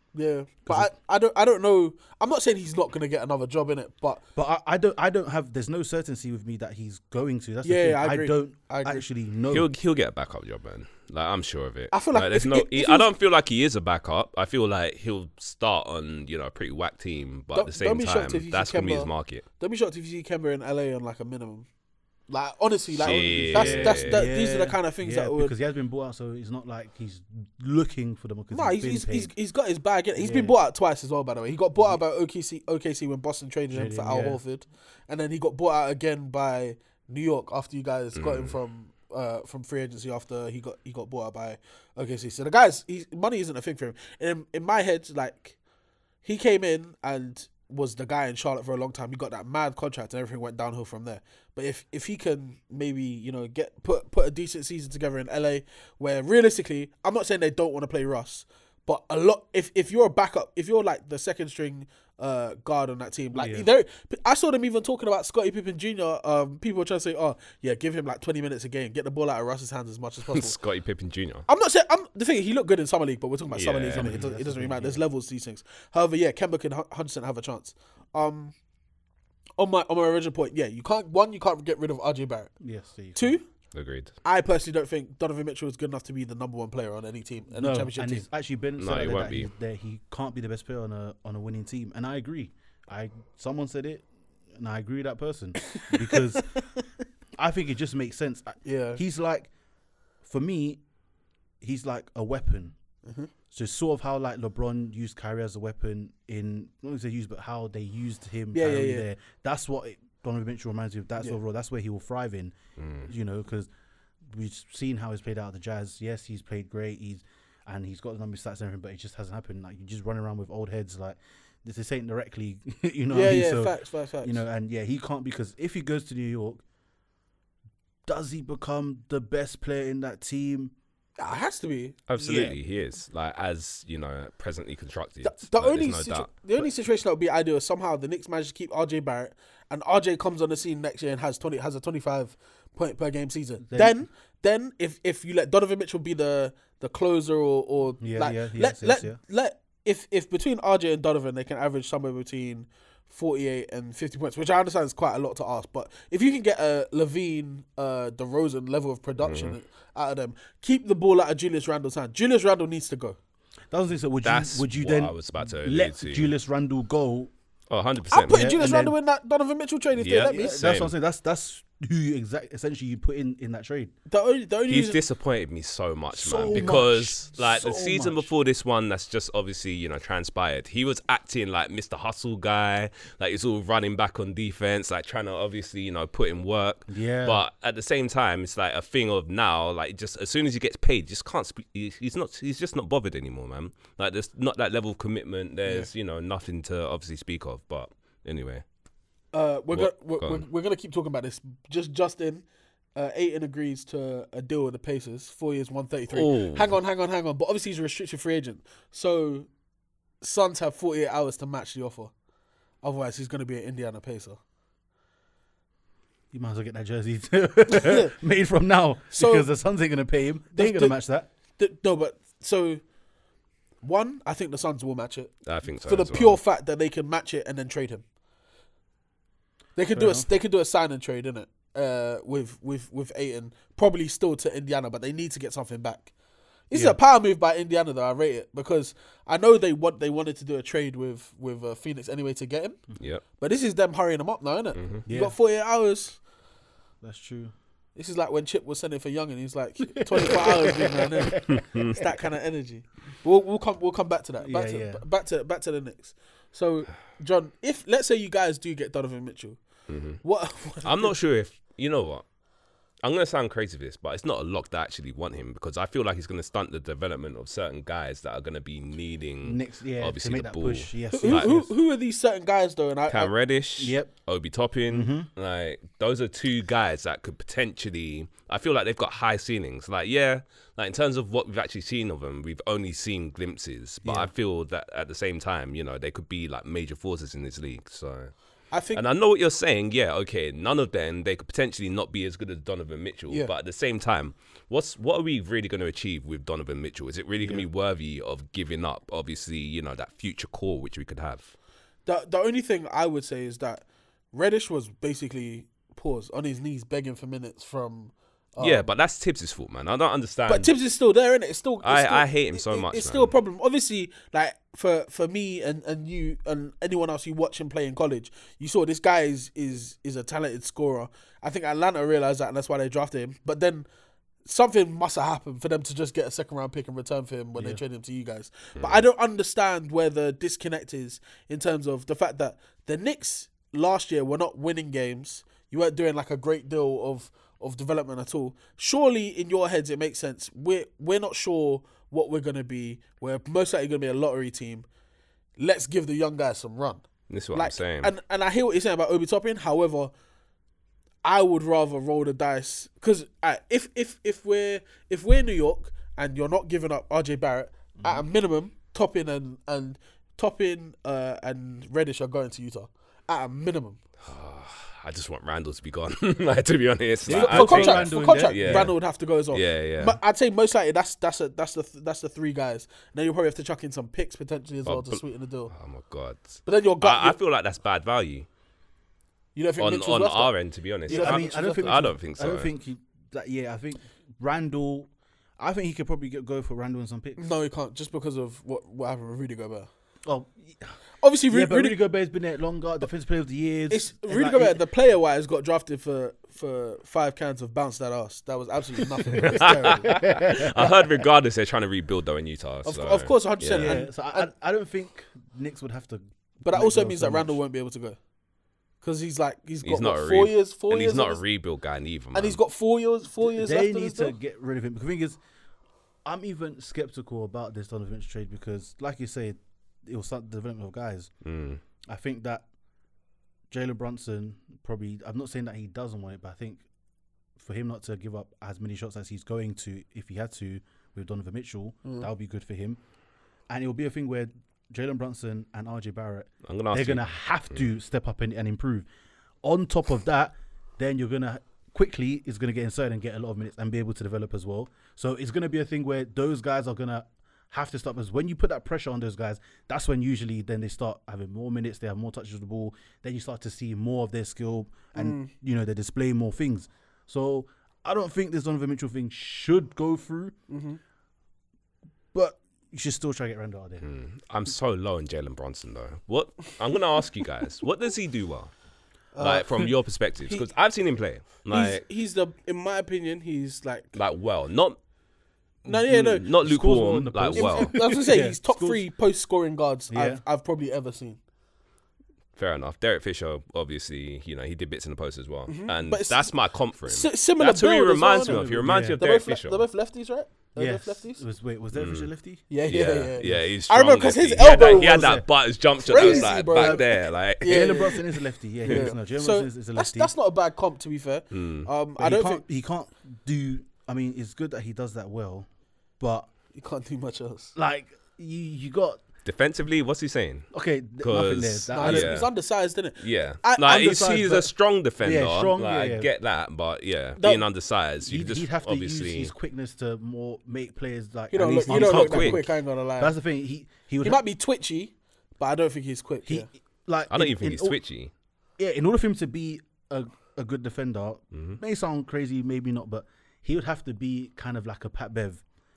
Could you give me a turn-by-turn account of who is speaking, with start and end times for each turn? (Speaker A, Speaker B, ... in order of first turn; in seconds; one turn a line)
Speaker A: 0.1-4.2
Speaker B: 0.7-0.9
Speaker B: 4.3-9.7
Speaker A: 7.6-9.1
Speaker C: 9.5-19.4
Speaker A: 11.9-13.1
Speaker A: 17.5-21.7
Speaker A: 22.3-25.5
Speaker C: 23.0-24.2
Speaker B: 23.1-29.3
Speaker A: 28.5-45.5
Speaker B: 30.1-30.5
Speaker B: 33.7-34.4
Speaker C: 38.1-38.5
Speaker A: 46.2-70.6
Speaker B: 63.3-63.7
Speaker C: 70.3-71.5
Speaker A: 71.5-78.5
Speaker C: 73.5-74.1
Speaker B: 74.0-75.0
Speaker A: 79.6-82.5
Speaker B: 82.6-83.4
Speaker A: 83.1-83.4
Speaker C: 83.7-84.1
Speaker A: 84.2-88.2
Speaker B: 87.5-96.5
Speaker C: 88.8-89.5
Speaker A: 95.7-96.7
Speaker B: 97.4-99.5
Speaker A: 98.6-99.0
Speaker B: 100.2-100.8
Speaker B: 101.6-102.7
Speaker A: 103.0-103.3
Speaker B: 103.5-113.7
Speaker A: 108.5-109.0
Speaker C: 112.8-113.1
Speaker B: 114.2-126.6
Speaker A: 123.1-124.4
Speaker B: 128.1-130.7
Speaker A: 131.2-132.5
Speaker C: 132.1-136.3
Speaker A: 135.2-163.2
Speaker B: 143.6-144.0
Speaker B: 148.0-149.2
Speaker C: 159.2-159.6
Speaker B: 163.7-167.3
Speaker C: 164.2-166.3
Speaker C: 167.7-168.4
Speaker A: 168.1-170.6
Speaker B: 168.3-168.9
Speaker C: 170.0-170.9
Speaker B: 170.2-173.9
Speaker A: 174.1-175.0
Speaker C: 174.7-198.6
Speaker B: 176.1-178.3
Speaker B: 186.9-187.4
Speaker A: 199.3-209.5
Speaker C: 199.7-200.4
Speaker C: 206.1-206.7
Speaker A: 210.2-212.1
Speaker A: 212.8-214.4
Speaker B: 216.3-221.3
Speaker A: 217.7-218.1
Speaker A: 219.1-219.4
Speaker A: 220.5-221.0
Speaker A: 221.6-222.8
Speaker A: 223.8-228.0
Speaker C: 225.4-226.4
Speaker A: 229.8-236.1
Speaker B: 229.9-230.3
Speaker A: 236.7-242.8
Speaker B: 236.7-237.0
Speaker A: 243.4-246.2
Speaker C: 244.7-245.0
Speaker B: 245.1-245.3
Speaker B: 247.0-247.5
Speaker A: 247.9-259.6
Speaker B: 249.9-252.1
Speaker C: 251.5-252.0
Speaker B: 254.4-255.0
Speaker C: 259.9-260.2
Speaker A: 260.2-261.1
Speaker C: 260.8-262.2
Speaker C: 263.0-271.5
Speaker B: 269.4-271.7
Speaker A: 271.1-273.3
Speaker C: 273.1-288.3
Speaker B: 273.8-274.1
Speaker B: 274.9-275.3
Speaker B: 284.0-284.3
Speaker A: 288.7-289.0
Speaker C: 288.9-301.5
Speaker B: 297.4-297.6
Speaker A: 302.1-308.9
Speaker C: 308.6-310.7
Speaker A: 310.5-323.9
Speaker C: 311.8-313.3
Speaker A: 324.4-344.9
Speaker C: 328.8-329.0
Speaker A: 345.6-350.1
Speaker C: 347.3-348.1
Speaker A: 351.2-364.0
Speaker B: 358.0-358.2
Speaker C: 364.2-369.0
Speaker B: 367.2-368.9
Speaker A: 367.3-375.7
Speaker C: 369.5-370.2
Speaker C: 374.9-378.5
Speaker A: 376.6-377.4
Speaker A: 379.5-380.5
Speaker C: 379.8-382.7
Speaker A: 381.1-382.0
Speaker B: 381.1-387.4
Speaker A: 387.4-389.9
Speaker B: 390.2-390.9
Speaker A: 391.2-392.0
Speaker B: 391.5-394.8
Speaker A: 393.9-400.1
Speaker B: 399.3-401.1
Speaker C: 399.4-404.0
Speaker A: 402.8-404.5
Speaker B: 403.7-407.6
Speaker A: 406.6-408.2
Speaker A: 409.0-411.4
Speaker C: 409.8-412.6
Speaker A: 412.3-414.3
Speaker B: 413.4-415.4
Speaker B: 416.2-421.3
Speaker C: 421.4-421.8
Speaker B: 422.1-422.6
Speaker B: 423.7-426.8
Speaker B: 427.6-433.0
Speaker B: 433.7-439.1
Speaker C: 436.6-437.8
Speaker B: 439.6-460.5
Speaker A: 455.1-455.5
Speaker A: 460.7-461.0
Speaker B: 462.3-464.0
Speaker C: 464.0-468.7
Speaker A: 469.3-469.9
Speaker C: 469.4-472.0
Speaker A: 471.7-474.2
Speaker C: 474.1-475.0
Speaker C: 475.8-477.9
Speaker A: 475.9-476.4
Speaker B: 476.6-479.1
Speaker A: 477.5-481.4
Speaker B: 480.1-480.4
Speaker C: 482.6-489.8
Speaker A: 485.7-486.5
Speaker A: 487.0-491.4
Speaker B: 488.4-489.2
Speaker B: 490.8-492.7
Speaker C: 491.9-492.3
Speaker A: 492.7-495.4
Speaker C: 492.9-498.2
Speaker B: 493.4-493.7
Speaker B: 494.6-495.5
Speaker A: 496.0-498.2
Speaker B: 496.1-500.3
Speaker A: 498.8-502.6
Speaker C: 498.9-499.1
Speaker C: 501.5-501.9
Speaker B: 502.2-505.7
Speaker B: 506.2-506.5
Speaker A: 506.7-507.7
Speaker B: 507.8-509.2
Speaker C: 509.4-510.7
Speaker B: 510.7-512.4
Speaker C: 511.2-512.5
Speaker A: 511.9-514.0
Speaker C: 513.2-519.5
Speaker B: 513.8-516.3
Speaker A: 517.4-517.6
Speaker B: 518.2-524.4
Speaker A: 521.5-523.3
Speaker C: 521.9-522.6
Speaker A: 524.2-526.7
Speaker B: 526.5-528.0
Speaker C: 527.3-528.3
Speaker B: 528.8-535.6